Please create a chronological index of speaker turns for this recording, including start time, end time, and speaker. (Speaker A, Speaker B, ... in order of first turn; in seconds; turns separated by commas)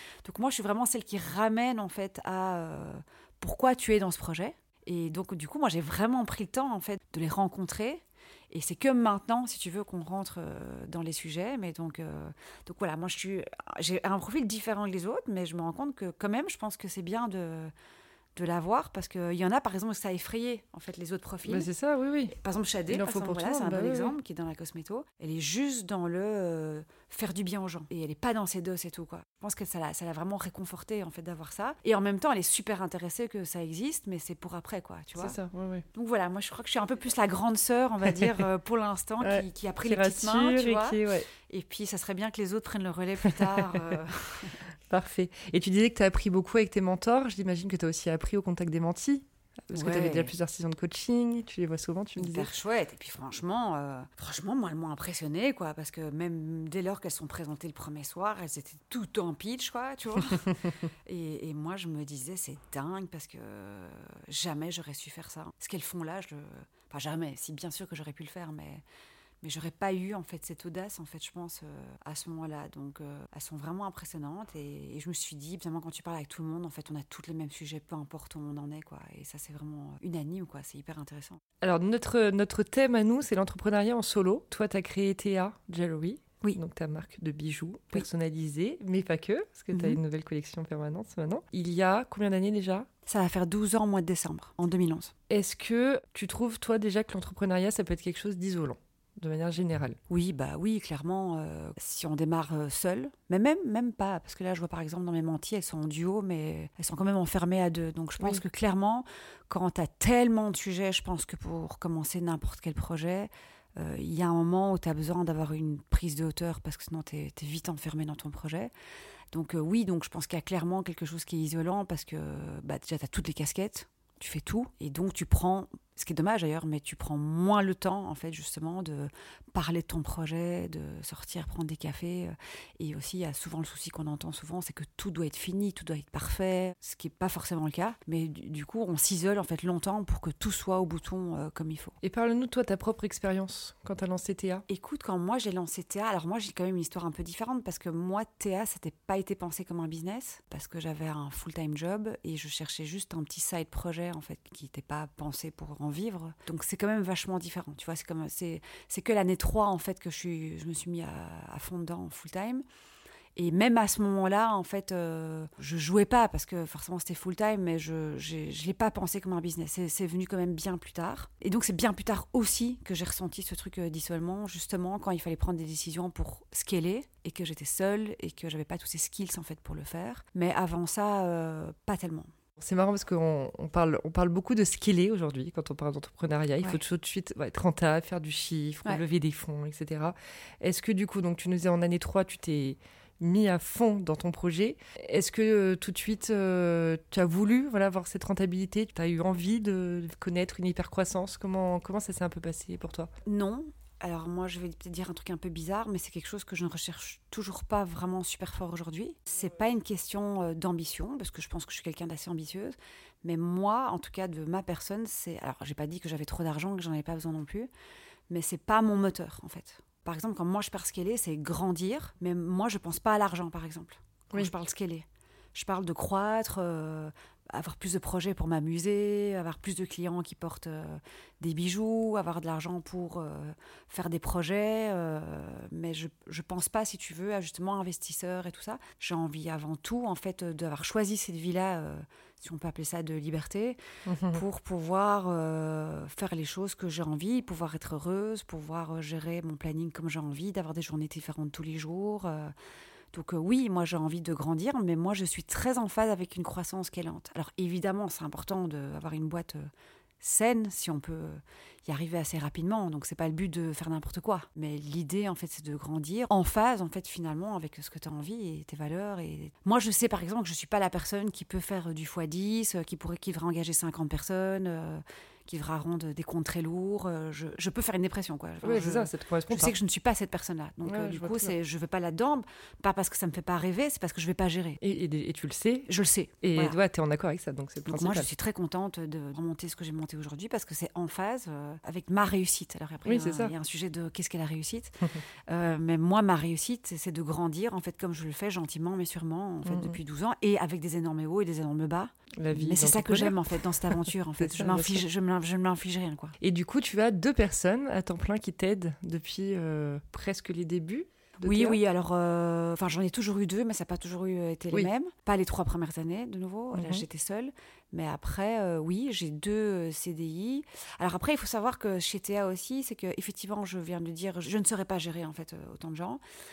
Speaker A: 0.2-17.7, Speaker A: 18.4-21.7, Speaker B: 21.4-22.4, Speaker A: 22.3-35.4, Speaker B: 22.9-24.1, Speaker B: 35.2-35.8, Speaker A: 35.9-44.7, Speaker B: 39.2-41.3, Speaker B: 43.2-43.8, Speaker B: 44.9-52.5, Speaker A: 49.7-50.3, Speaker A: 52.2-68.8, Speaker A: 69.4-81.4, Speaker B: 81.6-92.9, Speaker A: 89.7-90.0, Speaker A: 93.0-95.1, Speaker B: 95.3-100.0, Speaker A: 100.1-118.7, Speaker A: 119.3-142.0, Speaker B: 142.0-144.6, Speaker A: 144.7-162.6, Speaker A: 163.3-182.3, Speaker B: 182.6-203.1, Speaker A: 203.2-217.7, Speaker A: 218.3-252.5, Speaker B: 244.1-244.4, Speaker A: 253.1-284.8, Speaker B: 278.6-279.7, Speaker B: 280.8-281.5, Speaker B: 284.8-285.9, Speaker A: 285.9-286.8, Speaker B: 286.4-288.3, Speaker A: 287.9-306.4, Speaker B: 293.0-293.5, Speaker B: 299.6-300.0, Speaker B: 302.4-305.0, Speaker B: 306.4-311.8, Speaker A: 311.4-326.2, Speaker B: 316.7-317.0